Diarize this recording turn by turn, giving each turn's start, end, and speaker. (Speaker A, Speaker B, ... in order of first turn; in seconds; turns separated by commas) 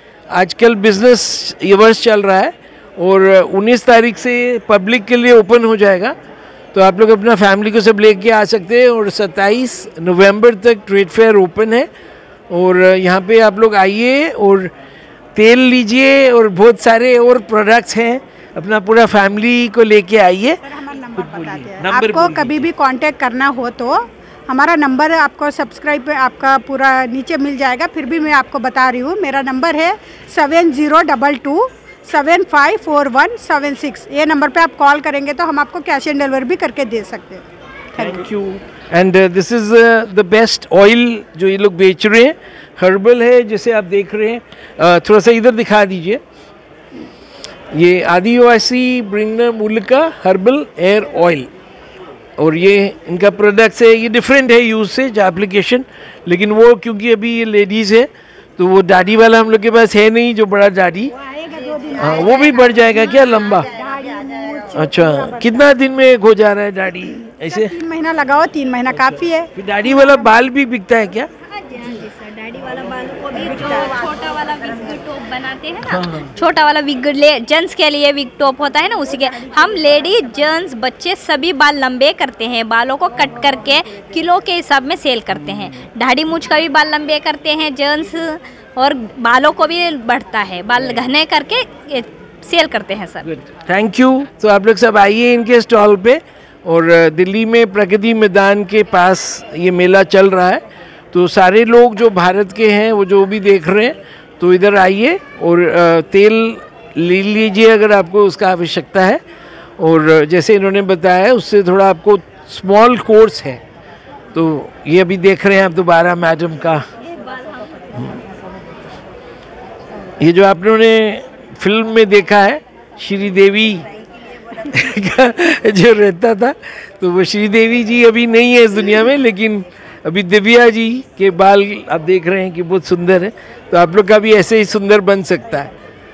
Speaker A: 0.3-6.2, Speaker A: 6.7-11.9, Speaker A: 12.5-14.7, Speaker A: 15.3-20.6, Speaker B: 20.6-37.4, Speaker A: 21.1-22.7, Speaker B: 38.0-38.2, Speaker A: 38.0-46.2, Speaker A: 47.7-51.5, Speaker A: 52.4-61.1, Speaker B: 61.1-65.7, Speaker A: 62.0-63.7, Speaker A: 64.7-67.8, Speaker B: 67.4-70.3, Speaker A: 69.0-71.3, Speaker C: 71.5-93.3, Speaker A: 75.9-76.3, Speaker A: 93.3-109.2, Speaker A: 109.8-113.6, Speaker A: 114.3-116.9, Speaker C: 117.1-118.2, Speaker A: 120.2-123.8, Speaker A: 124.6-135.7